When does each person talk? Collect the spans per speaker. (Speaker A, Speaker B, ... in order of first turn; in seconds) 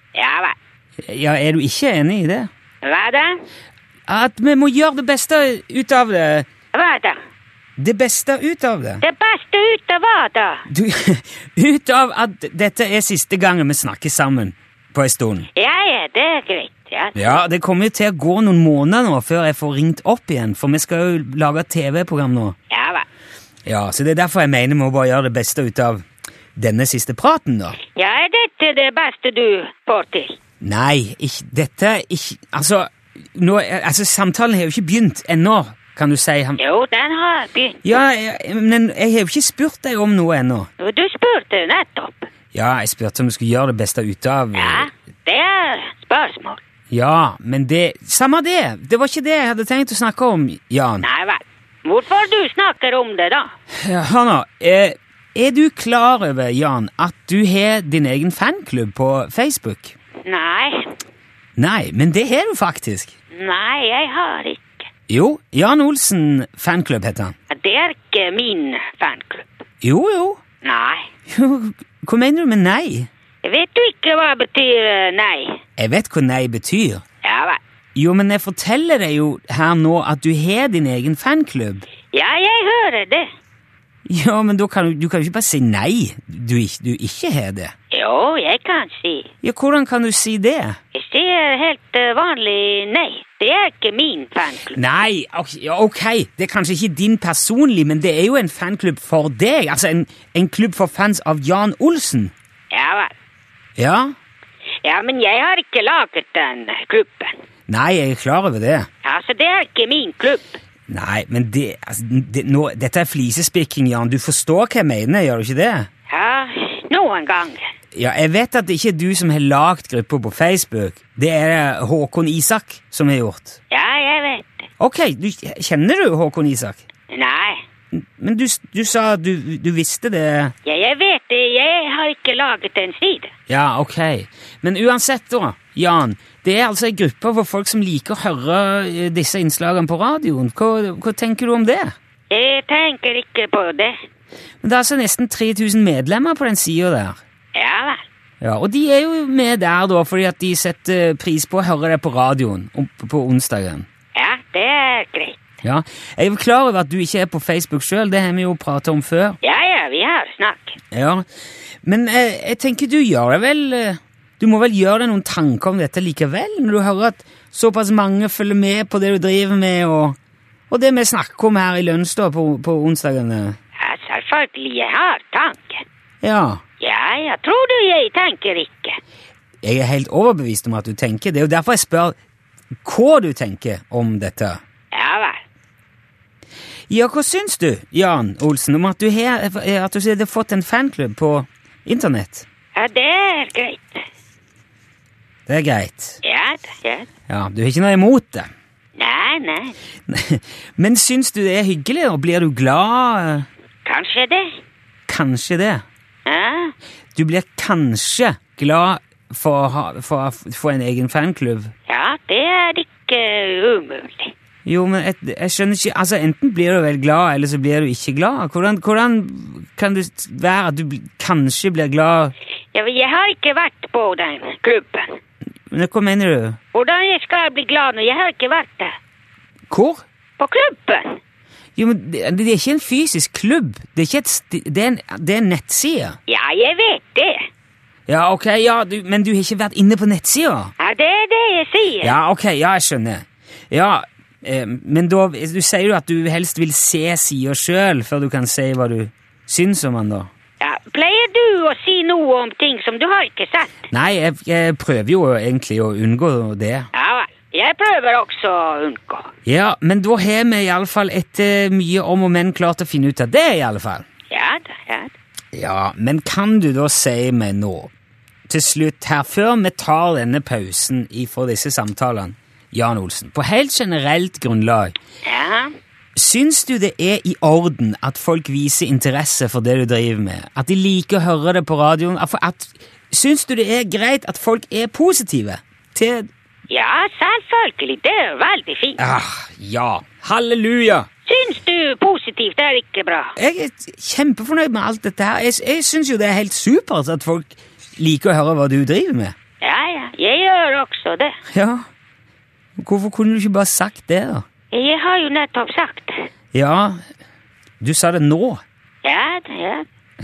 Speaker A: 0.1-0.6, 2.8-3.4, 6.7-7.2, 9.0-10.7, 15.6-17.4, 22.7-23.1, 28.0-30.4, 36.6-37.9, 40.8-42.3, 44.5-46.6, 51.0-53.5, 60.2-60.9, 63.3-64.9, 67.5-69.6, 70.6-71.1, 73.4-75.6, 77.2-77.6, 82.1-83.3, 87.9-89.3, 90.9-94.8, 102.7-103.1, 104.8-107.3, 109.0-110.6, 116.1-117.7, 123.7-124.7, 127.1-127.6, 130.7-133.3, 142.3-143.9, 147.6-148.0, 154.2-155.4, 159.4-160.8, 173.8-175.8, 176.8-179.0, 184.9-185.4, 192.8-194.0, 196.2-197.1, 199.0-199.8, 203.8-204.6, 206.3-206.7, 211.9-214.3, 222.7-225.2, 226.7-228.9, 230.4-231.2, 236.3-237.4, 240.8-242.2, 250.6-253.9, 256.9-259.3, 264.3-265.1, 275.2-275.7, 286.7-289.0, 291.3-293.4, 299.6-301.4, 304.7-306.3, 309.0-309.9
Speaker B: 1.0-2.5, 4.1-6.5, 7.8-9.0, 10.7-15.5, 17.1-22.6, 23.7-26.1, 26.6-27.8, 30.6-36.6, 37.8-40.7, 42.5-44.9, 46.9-51.1, 53.8-60.0, 61.6-63.1, 65.1-67.3, 69.8-70.4, 71.3-73.1, 75.8-77.0, 78.0-81.9, 84.1-87.7, 89.4-90.8, 94.7-102.3, 103.8-104.1, 107.7-108.9, 110.9-115.9, 118.0-123.6, 124.8-126.8, 127.9-130.6, 133.5-141.9, 144.6-147.2, 148.4-153.9, 155.6-159.4, 160.9-161.2, 161.8-170.2, 170.7-173.6, 176.2-176.6, 179.6-182.2, 182.8-184.6, 186.9-192.5, 195.5-196.2, 197.3-198.5, 200.1-203.5, 205.1-205.8, 207.2-211.7, 214.7-222.3, 225.7-226.6, 229.7-230.0, 231.8-236.2, 238.1-240.7, 242.0-250.3, 253.9-256.9, 259.5-264.1, 265.5-267.9, 268.5-275.0, 276.2-286.3, 289.0-291.1, 293.4-299.3, 301.5-301.9, 302.8-304.4, 306.5-307.0, 307.8-308.6